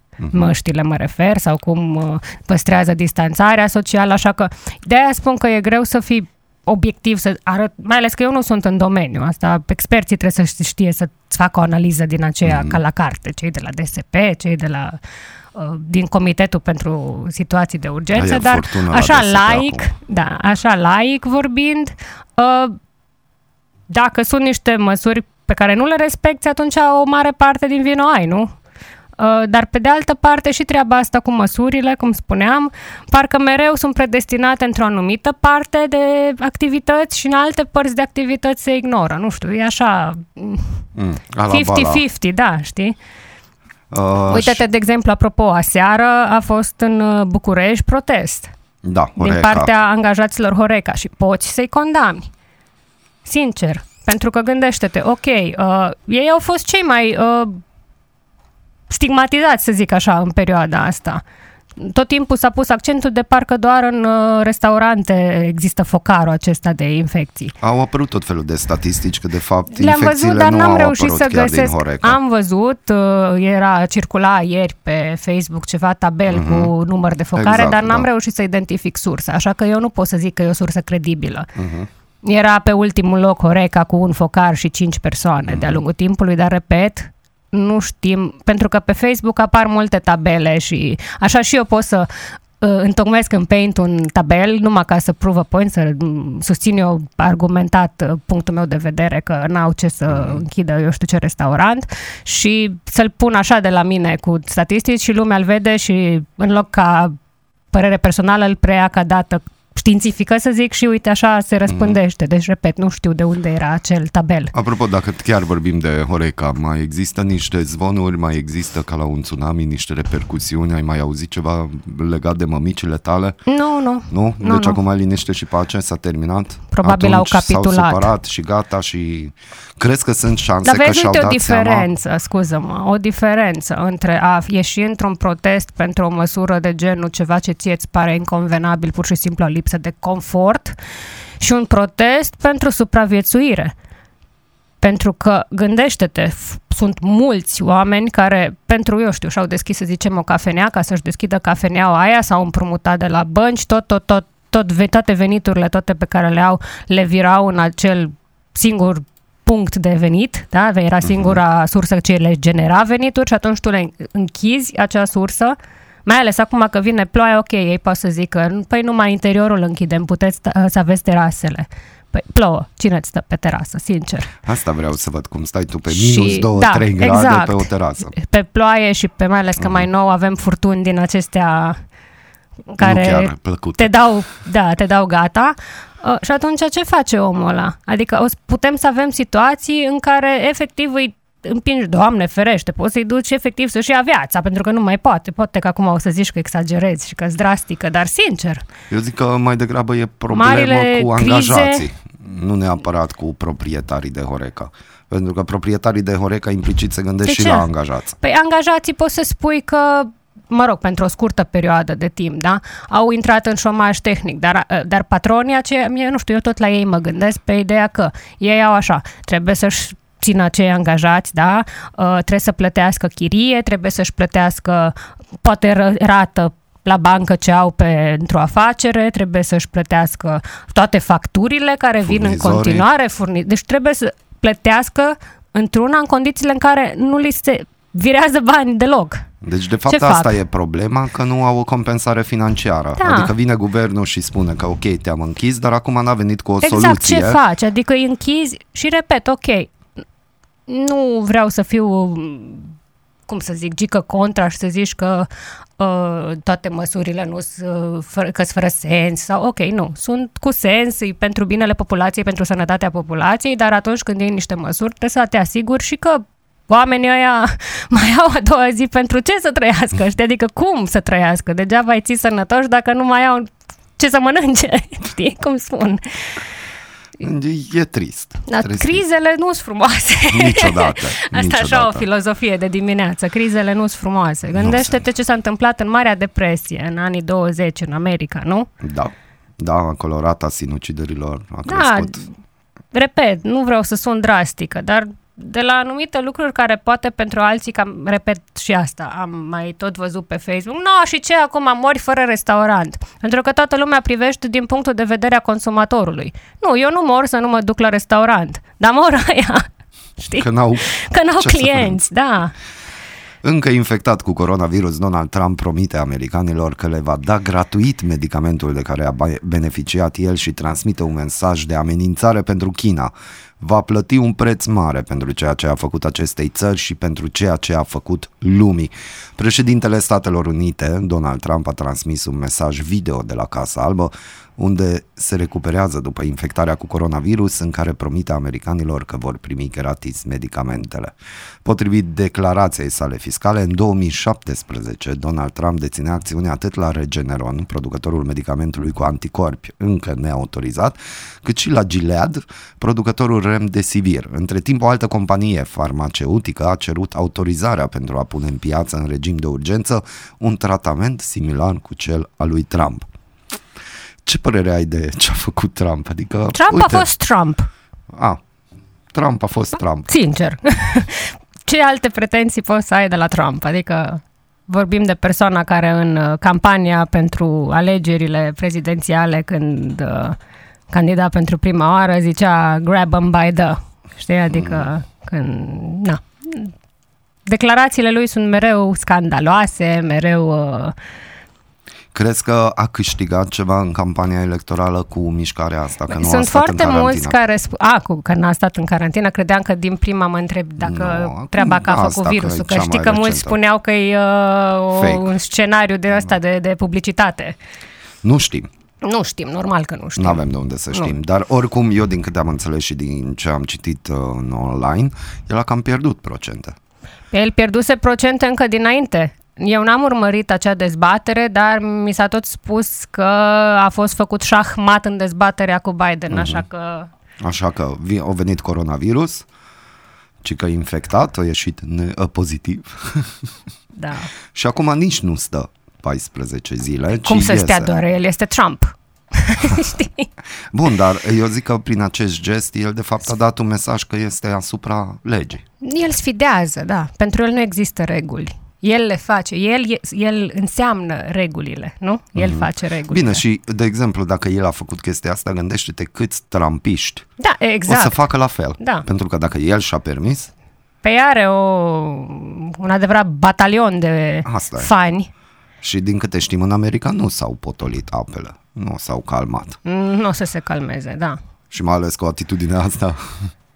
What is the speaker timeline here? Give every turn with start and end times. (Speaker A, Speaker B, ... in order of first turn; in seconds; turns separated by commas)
Speaker A: 0.2-0.5, Speaker B: 0.3-15.0, Speaker A: 12.4-12.8, Speaker B: 15.5-22.8, Speaker A: 18.1-19.9, Speaker B: 23.9-28.5, Speaker B: 29.2-40.8, Speaker A: 40.9-42.0, Speaker B: 41.5-43.0, Speaker A: 43.9-44.6, Speaker B: 44.3-48.5, Speaker A: 48.8-49.7, Speaker B: 49.2-52.3, Speaker B: 53.2-57.6, Speaker B: 58.9-61.2, Speaker B: 61.8-67.5, Speaker A: 67.6-72.2, Speaker B: 69.7-81.5, Speaker A: 76.3-76.7, Speaker A: 77.3-78.1, Speaker A: 81.5-81.9, Speaker B: 82.2-107.2, Speaker A: 85.5-85.8, Speaker A: 100.1-100.4, Speaker B: 107.7-114.5, Speaker A: 111.7-112.0, Speaker A: 114.5-123.4, Speaker B: 123.5-124.8, Speaker A: 124.1-131.9, Speaker B: 126.7-128.1, Speaker B: 130.6-140.8, Speaker B: 141.4-143.7, Speaker B: 144.8-174.3, Speaker A: 161.0-161.4, Speaker A: 174.4-178.1, Speaker B: 175.9-181.8, Speaker B: 182.7-198.6, Speaker A: 182.8-184.0, Speaker A: 198.9-208.2, Speaker B: 200.3-201.8, Speaker B: 207.2-207.7, Speaker B: 208.2-239.2, Speaker A: 232.0-232.8, Speaker A: 239.4-247.4, Speaker B: 239.9-240.3, Speaker B: 243.0-243.3, Speaker B: 246.6-249.7, Speaker B: 250.7-252.7, Speaker B: 253.3-255.3, Speaker B: 255.8-276.4, Speaker A: 277.2-279.0, Speaker B: 278.4-288.7, Speaker A: 280.3-282.0, Speaker A: 284.5-285.0, Speaker A: 288.8-292.2, Speaker B: 291.6-292.3, Speaker B: 292.9-309.6, Speaker B: 310.2-312.5, Speaker A: 310.3-312.1, Speaker A: 313.4-363.1, Speaker A: 364.2-367.1, Speaker B: 366.5-367.7, Speaker A: 368.1-368.4, Speaker A: 369.1-370.1, Speaker B: 370.1-380.4, Speaker B: 380.9-386.7, Speaker A: 384.5-384.9, Speaker B: 387.4-390.9, Speaker A: 392.1-397.4, Speaker B: 396.1-407.6, Speaker A: 400.8-403.6, Speaker A: 404.9-405.3, Speaker A: 408.2-408.7, Speaker B: 409.0-411.1, Speaker A: 410.2-416.8, Speaker B: 417.3-427.1, Speaker A: 426.3-426.6, Speaker A: 427.4-429.4, Speaker A: 430.4-433.4, Speaker B: 433.9-434.3, Speaker A: 434.5-437.9, Speaker B: 437.1-440.3, Speaker A: 440.7-445.6, Speaker B: 445.8-453.4, Speaker A: 452.4-457.2, Speaker B: 457.4-458.2, Speaker A: 457.9-460.5, Speaker B: 458.8-459.0, Speaker B: 461.0-465.3, Speaker A: 464.4-464.9, Speaker A: 465.8-469.8, Speaker B: 469.8-471.4, Speaker A: 471.7-473.5